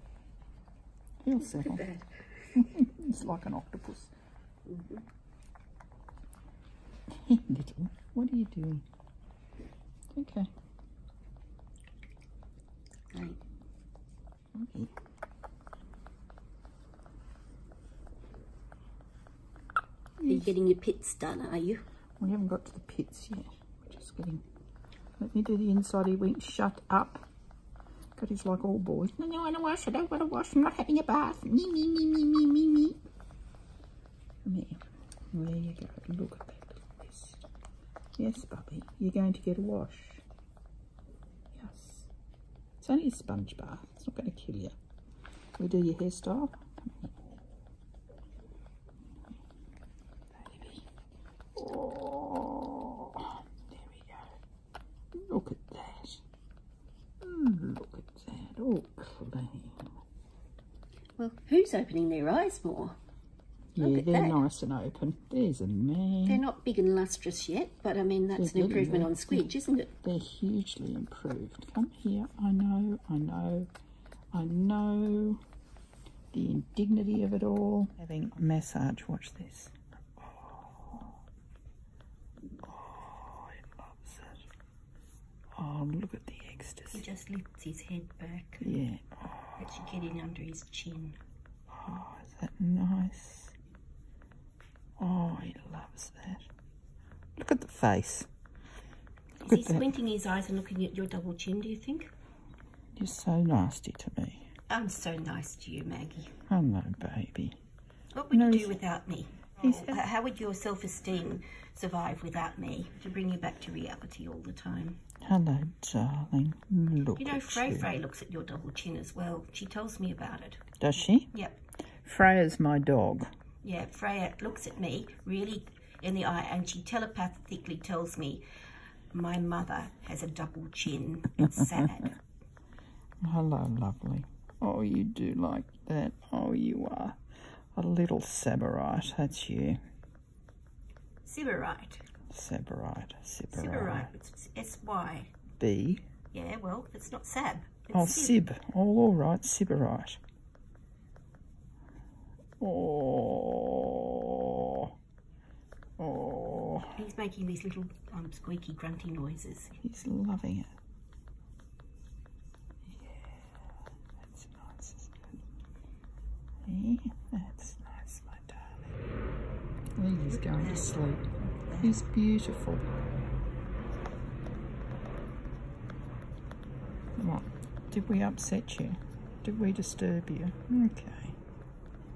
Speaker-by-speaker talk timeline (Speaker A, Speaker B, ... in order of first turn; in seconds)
Speaker A: 1.2-1.8, 2.5-4.1, 7.1-8.8, 10.1-10.5, 14.5-14.9, 20.2-20.5, 22.2-24.4, 25.2-27.2, 28.1-33.0, 34.4-37.4, 38.2-40.2, 41.5-42.1, 42.8-44.8, 45.6-47.1, 50.3-50.9, 51.5-54.3, 55.1-56.2, 57.2-59.9, 63.7-66.4, 68.3-69.5, 70.0-73.7, 74.3-75.4, 76.3-81.1, 82.6-84.4, 85.5-87.0, 88.6-89.5, 91.7-93.5, 95.0-96.5, 97.4-98.3, 99.5-99.9, 103.0-104.5, 106.5-107.5, 108.3-108.8, 109.6-110.0, 115.2-117.9, 120.8-121.3, 122.0-123.3, 133.2-137.2, 137.7-139.8, 142.3-144.1, 145.6-146.0, 147.9-150.2, 152.6-154.9, 156.0-157.0, 159.8-160.7, 162.9-163.5, 164.2-165.4, 166.7-168.8, 170.0-171.2, 171.8-172.8, 177.2-181.4
Speaker B: 1.4-2.5, 4.7-5.0, 13.1-13.4, 20.2-21.8, 61.2-63.0, 63.8-64.4, 66.2-69.9, 86.9-88.8, 89.6-91.2, 99.4-102.1, 104.7-106.3, 108.1-115.0, 117.2-120.6, 121.3-121.6, 123.6-128.4, 129.1-132.2, 141.2-142.0, 143.5-145.3, 146.3-148.4, 156.9-159.7, 170.3-172.0